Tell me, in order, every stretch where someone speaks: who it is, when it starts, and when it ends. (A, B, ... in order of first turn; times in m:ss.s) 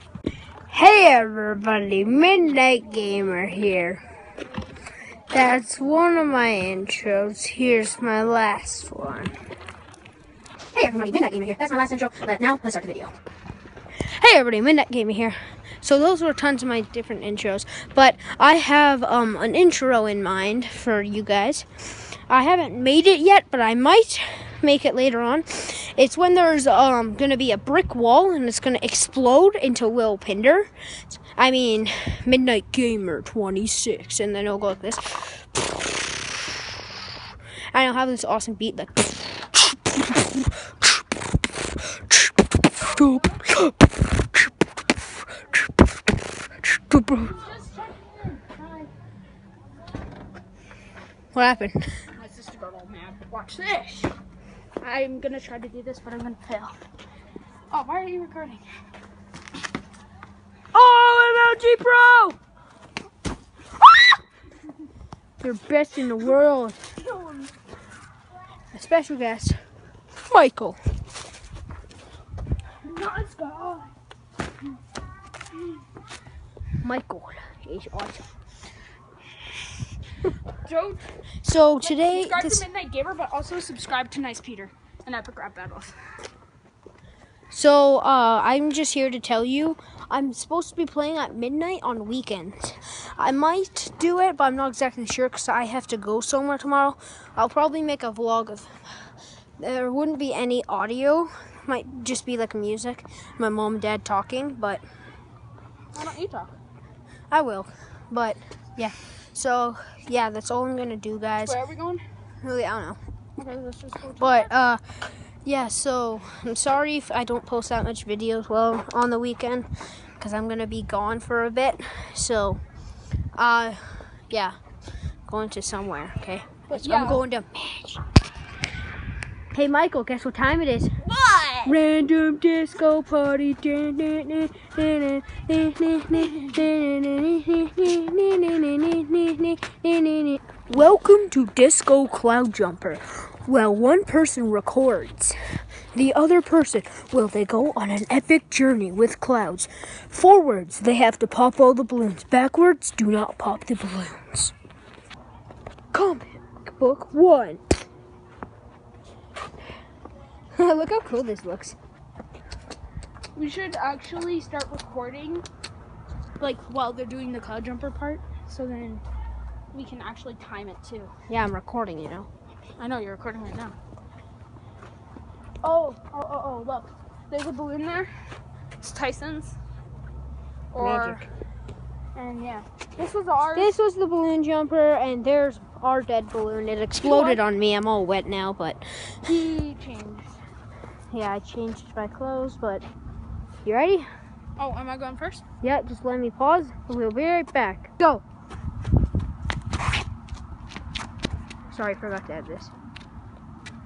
0:00.7-0:04.0 A
0:05.3-0:09.3 A
0:10.7-0:13.1 A
0:14.0-0:35.5 A
0:37.7-0:40.5 A
0:42.8-0:43.9 A
0:46.6-0:47.4 A
0:47.2-0:48.9 B
0:51.3-0:52.0 A
0:52.1-0:54.2 B
0:54.8-0:56.8 B
0:57.7-0:58.7 B
1:00.7-1:02.4 A
1:05.4-1:06.8 A
1:07.0-1:07.5 B
1:08.7-1:09.7 A
1:10.2-1:10.8 A
1:12.8-1:13.9 B
1:16.8-1:18.3 A
1:20.6-1:21.0 B
1:21.4-1:22.6 A
1:21.8-1:26.0 B
1:27.5-1:39.1 A
1:39.6-1:44.8 A
1:45.9-1:46.6 B
1:47.3-1:51.6 A
1:51.4-1:52.0 B
1:52.4-1:53.0 A
1:53.4-1:54.5 B
1:54.2-2:02.6 A
2:03.4-2:04.6 A
2:05.3-2:08.0 A
2:06.7-2:07.2 B
2:09.5-2:10.9 A
2:11.0-2:11.7 B
2:11.7-2:25.4 A
2:25.9-2:34.5 A
2:35.9-2:37.8 A
2:40.5-2:41.8 A
2:43.4-2:45.5 B
2:46.4-2:49.0 B
2:49.7-2:51.1 B
2:51.3-2:52.3 A
2:52.8-2:53.8 B
2:55.6-2:59.6 B
3:00.7-3:01.2 B
3:00.8-3:01.3 A
3:02.2-3:03.8 B
3:03.6-3:09.2 A
3:07.0-3:07.4 B
3:09.2-3:10.4 B
3:11.1-3:12.9 A
3:13.6-3:14.1 A
3:14.6-3:15.4 B
3:15.6-3:18.2 A
3:21.7-3:22.7 A